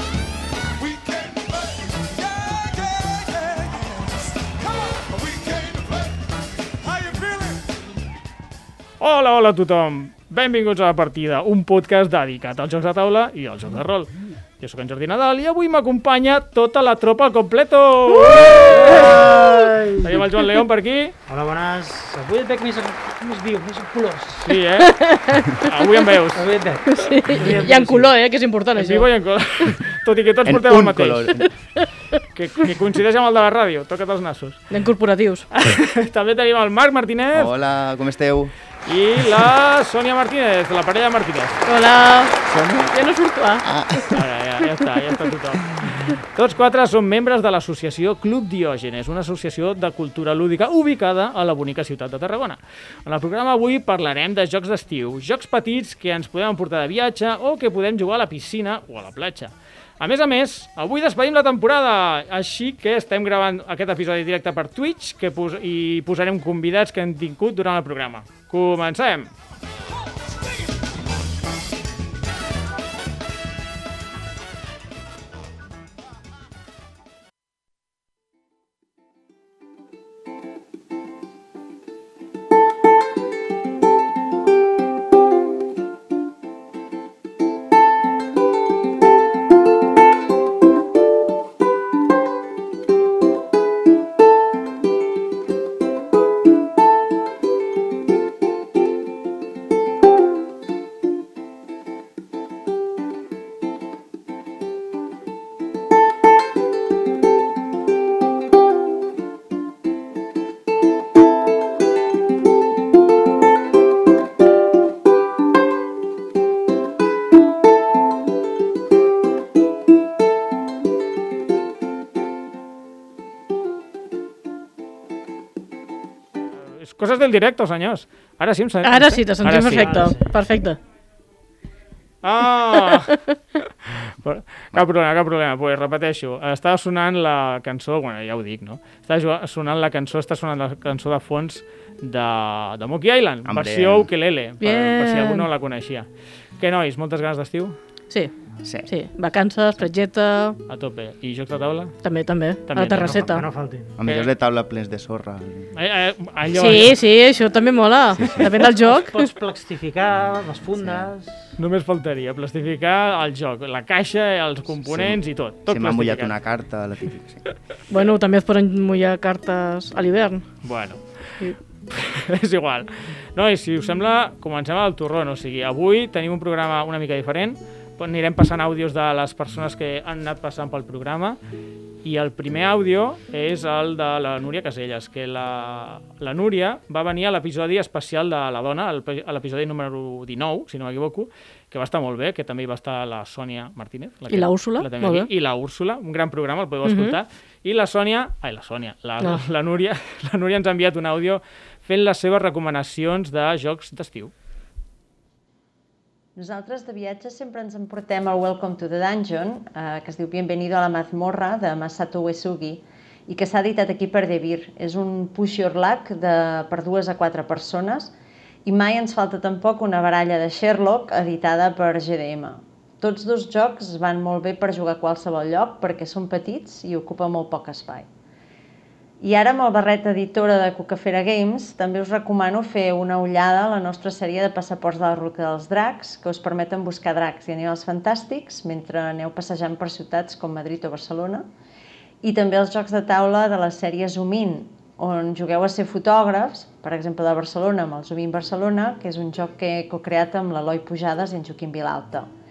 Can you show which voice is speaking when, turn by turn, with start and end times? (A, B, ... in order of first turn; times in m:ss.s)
0:09.0-0:21.1 A
0:18.2-0:18.6 B
0:18.5-0:20.2 C
0:21.3-0:24.6 C
0:24.4-0:25.0 A
0:24.8-0:25.6 B
0:25.6-0:26.5 A
0:26.3-0:28.2 C
0:26.9-0:29.1 B
0:28.8-0:31.4 A
0:30.4-0:31.5 D
0:32.3-0:34.8 A
0:34.7-0:35.5 B
0:35.5-0:37.5 A
0:37.3-0:38.5 D
0:38.9-0:41.6 A
0:41.6-0:43.6 B
0:42.5-0:42.9 D
0:43.6-0:44.2 D
0:44.1-1:09.3 A
2:06.7-2:10.1 A
2:08.8-2:10.8 B
2:09.6-2:10.4 C
2:12.2-2:26.1 A
2:23.4-2:24.1 D
2:24.6-2:25.5 B
2:26.6-2:27.8 A
2:28.6-2:28.9 D
2:28.9-2:30.6 B
2:30.7-2:32.0 A
2:32.0-2:33.5 B
2:32.7-2:33.3 A
2:33.0-2:33.9 C
2:34.0-2:35.7 D
2:35.7-2:37.0 A
2:36.5-2:39.2 B
2:38.2-2:38.5 D
2:38.7-2:41.4 C
2:41.6-2:46.4 A
2:44.8-2:47.4 D
2:47.9-2:50.4 B
2:50.6-2:51.0 A
2:51.9-3:01.4 A
3:02.0-3:24.3 A
3:14.3-3:15.3 B
3:16.8-3:17.2 B
3:26.4-3:38.1 E
3:38.7-3:48.1 E
3:49.2-4:01.5 E
4:02.2-4:12.3 E